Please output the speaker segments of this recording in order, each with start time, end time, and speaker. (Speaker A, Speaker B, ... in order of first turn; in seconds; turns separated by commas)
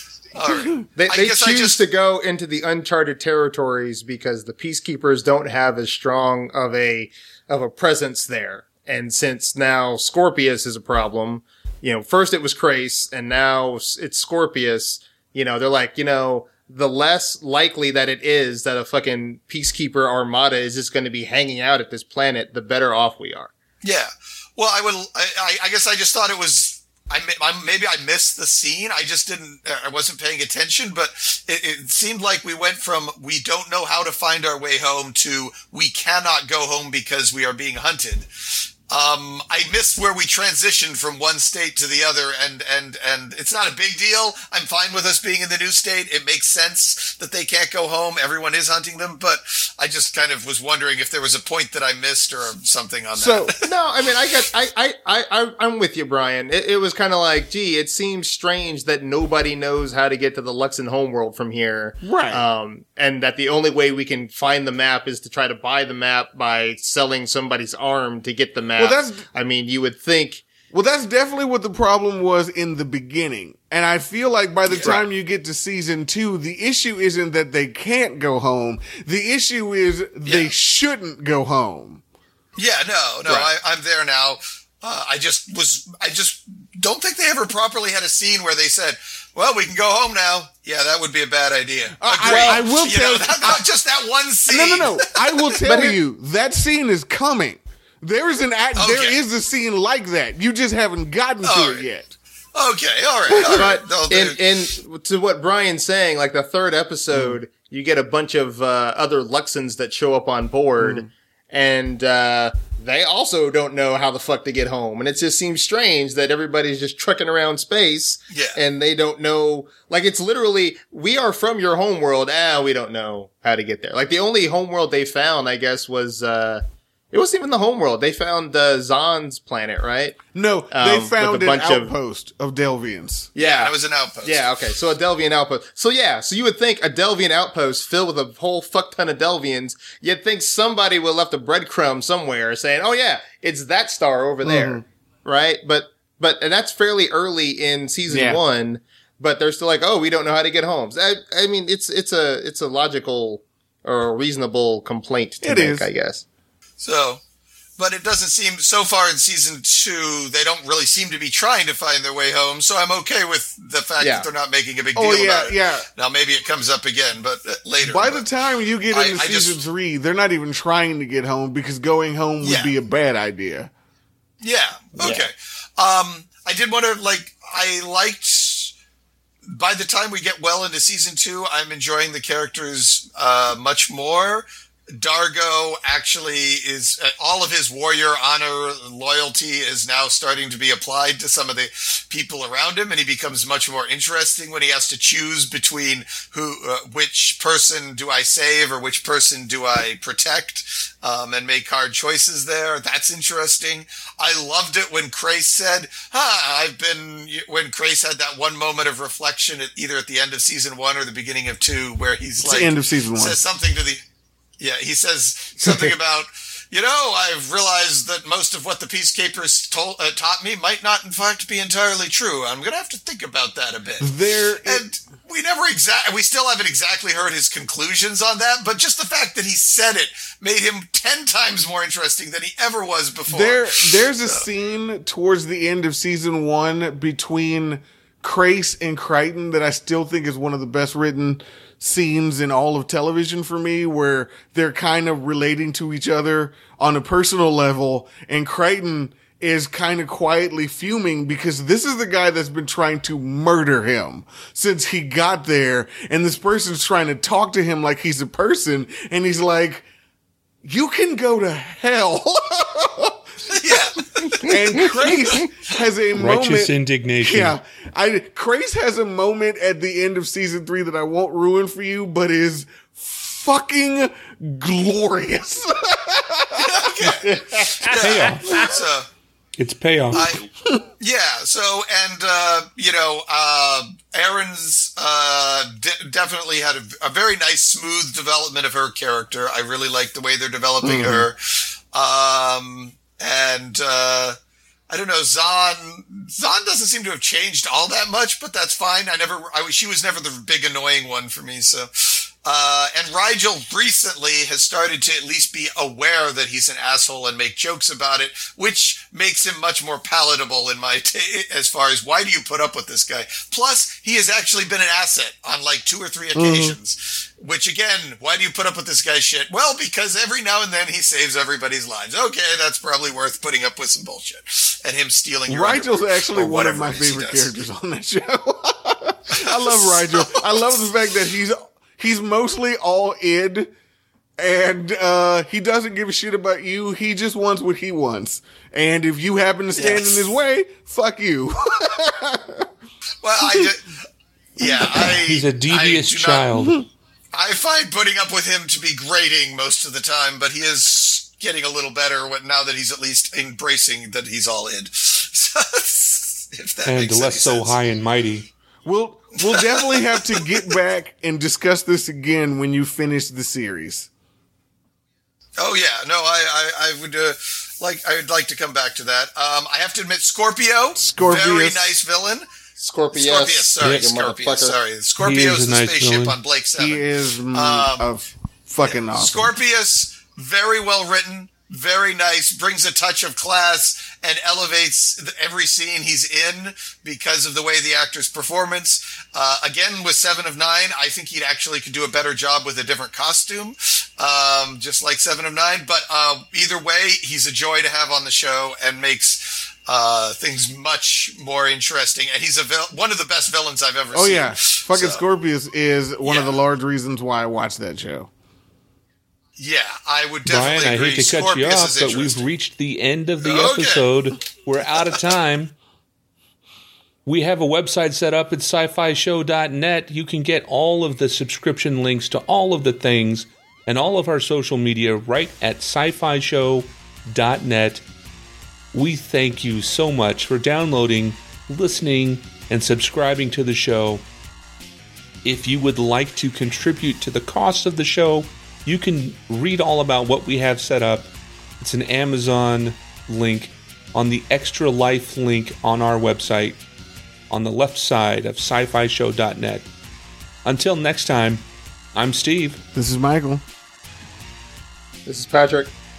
Speaker A: 0.3-1.8, Speaker B: 0.4-0.8, Speaker C: 0.9-23.5, Speaker A: 23.8-38.3, Speaker A: 38.9-53.6, Speaker B: 53.1-53.5, Speaker C: 53.6-70.5, Speaker B: 62.0-62.4, Speaker B: 68.8-69.2, Speaker B: 70.7-82.0, Speaker A: 74.7-75.0, Speaker C: 74.7-75.0, Speaker A: 80.2-80.5, Speaker A: 82.5-95.4, Speaker B: 92.0-93.6, Speaker C: 92.2-92.7, Speaker B: 94.5-102.1, Speaker C: 95.6-96.0, Speaker A: 98.8-99.2, Speaker A: 101.4-101.8, Speaker A: 102.5-104.4, Speaker B: 103.3-103.7, Speaker C: 103.5-130.2, Speaker B: 107.1-107.4, Speaker B: 110.8-111.1, Speaker A: 118.3-118.6, Speaker B: 130.3-133.3, Speaker C: 130.7-131.9, Speaker C: 133.3-156.2, Speaker A: 133.4-134.6, Speaker B: 144.4-144.8, Speaker B: 148.1-148.4, Speaker B: 155.4-155.9, Speaker A: 156.8-157.2, Speaker A: 157.8-168.2, Speaker C: 164.0-164.3, Speaker B: 164.9-165.9, Speaker B: 167.8-173.7, Speaker A: 168.9-169.6, Speaker A: 172.4-172.7, Speaker A: 174.4-178.7, Speaker C: 175.0-175.2, Speaker A: 179.4-214.0, Speaker B: 212.4-213.4, Speaker A: 214.6-234.5, Speaker C: 215.6-215.9, Speaker B: 224.0-224.8, Speaker B: 233.3-259.9, Speaker B: 260.6-263.2, Speaker A: 263.5-264.5, Speaker C: 264.4-265.4, Speaker B: 264.5-277.1, Speaker D: 266.2-267.5, Speaker A: 276.6-279.1, Speaker C: 277.2-278.7, Speaker D: 278.0-278.7, Speaker D: 279.6-280.3, Speaker A: 280.1-280.5, Speaker A: 281.0-294.4, Speaker B: 290.8-291.3, Speaker A: 294.9-327.5, Speaker B: 316.3-316.8, Speaker B: 325.5-333.7, Speaker A: 329.3-330.8, Speaker B: 334.4-342.7, Speaker A: 339.8-340.4, Speaker A: 343.2-343.9, Speaker A: 344.6-346.5, Speaker D: 344.6-346.9, Speaker A: 347.3-357.8, Speaker D: 356.9-358.5, Speaker B: 358.8-364.1, Speaker A: 359.4-360.4, Speaker A: 365.6-372.5, Speaker B: 371.0-371.8, Speaker C: 372.8-374.8, Speaker A: 373.1-378.1, Speaker D: 373.8-374.1, Speaker D: 375.2-376.4, Speaker B: 376.8-379.5, Speaker A: 378.8-405.2, Speaker B: 404.1-408.3, Speaker A: 406.2-406.6, Speaker A: 409.6-412.5, Speaker D: 410.4-415.7, Speaker A: 413.4-414.1, Speaker D: 417.2-428.0, Speaker D: 428.9-434.2, Speaker D: 435.4-446.8, Speaker D: 447.5-449.9, Speaker D: 450.6-452.8, Speaker B: 452.9-453.6, Speaker C: 455.2-455.9